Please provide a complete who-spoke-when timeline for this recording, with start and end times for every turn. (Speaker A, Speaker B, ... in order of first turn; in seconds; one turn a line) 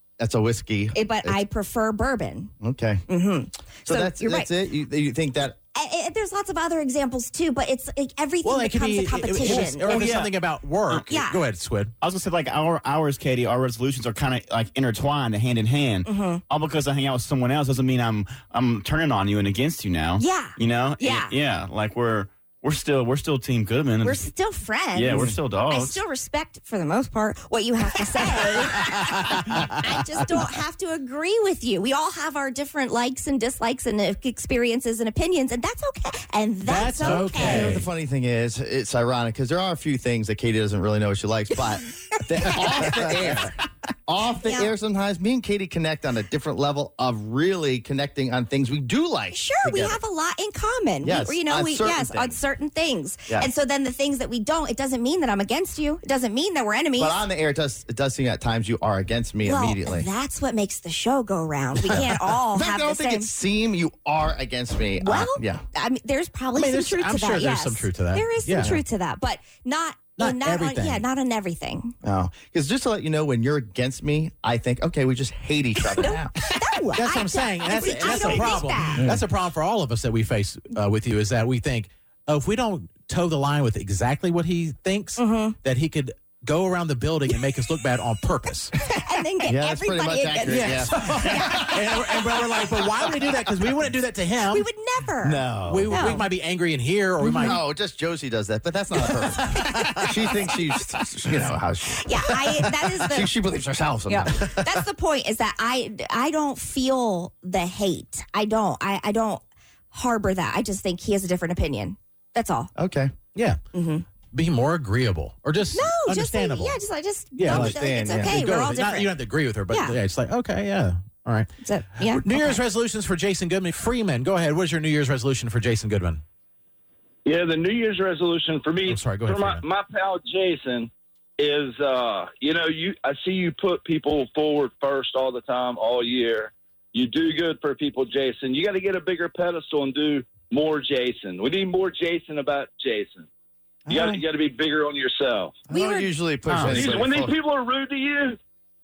Speaker A: 0.2-1.4
Speaker B: 0.9-2.5
Speaker A: 2.6-3.0
Speaker B: 3.1-4.5
Speaker A: 3.9-5.6
Speaker B: 5.7-10.1
Speaker C: 8.4-11.9
Speaker D: 9.4-10.4
Speaker B: 11.1-11.4
Speaker D: 12.0-24.3
Speaker B: 16.1-16.4
Speaker B: 20.2-21.3
Speaker B: 24.0-37.8
Speaker D: 24.9-26.0
Speaker A: 25.1-25.4
Speaker C: 28.9-29.4
Speaker C: 36.6-37.9
Speaker A: 37.0-50.0
Speaker B: 41.9-43.3
Speaker B: 44.5-44.7
Speaker B: 49.3-57.2
Speaker A: 51.0-52.4
Speaker A: 57.0-60.1
Speaker B: 59.5-63.3
Speaker A: 61.9-65.6
Speaker B: 65.0-72.0
Speaker C: 66.5-68.8
Speaker C: 70.2-71.0
Speaker A: 72.0-76.4
Speaker B: 76.0-79.1
Speaker C: 76.9-88.8
Speaker D: 77.7-78.6
Speaker A: 78.9-79.2
Speaker B: 85.2-85.6
Speaker B: 88.8-91.8
Speaker A: 89.5-92.1
Speaker C: 90.5-94.7
Speaker B: 94.5-96.2
Speaker A: 95.2-96.2
Speaker C: 95.7-97.6
Speaker B: 97.2-97.6
Speaker A: 97.4-102.1
Speaker C: 99.0-100.5
Speaker B: 101.9-103.3
Speaker A: 103.0-104.5
Speaker B: 104.1-112.7
Speaker A: 112.8-113.1
Speaker B: 113.7-114.0
Speaker C: 114.3-116.8
Speaker B: 115.7-119.1
Speaker C: 117.4-126.2
Speaker A: 117.5-118.3
Speaker B: 119.7-120.0
Speaker B: 121.6-122.6
Speaker E: 127.2-143.3
Speaker C: 128.9-129.6
Speaker A: 143.9-144.2
Speaker E: 143.9-145.6
Speaker A: 145.7-147.3
Speaker B: 145.7-146.1
Speaker D: 146.5-147.0
Speaker E: 146.7-148.4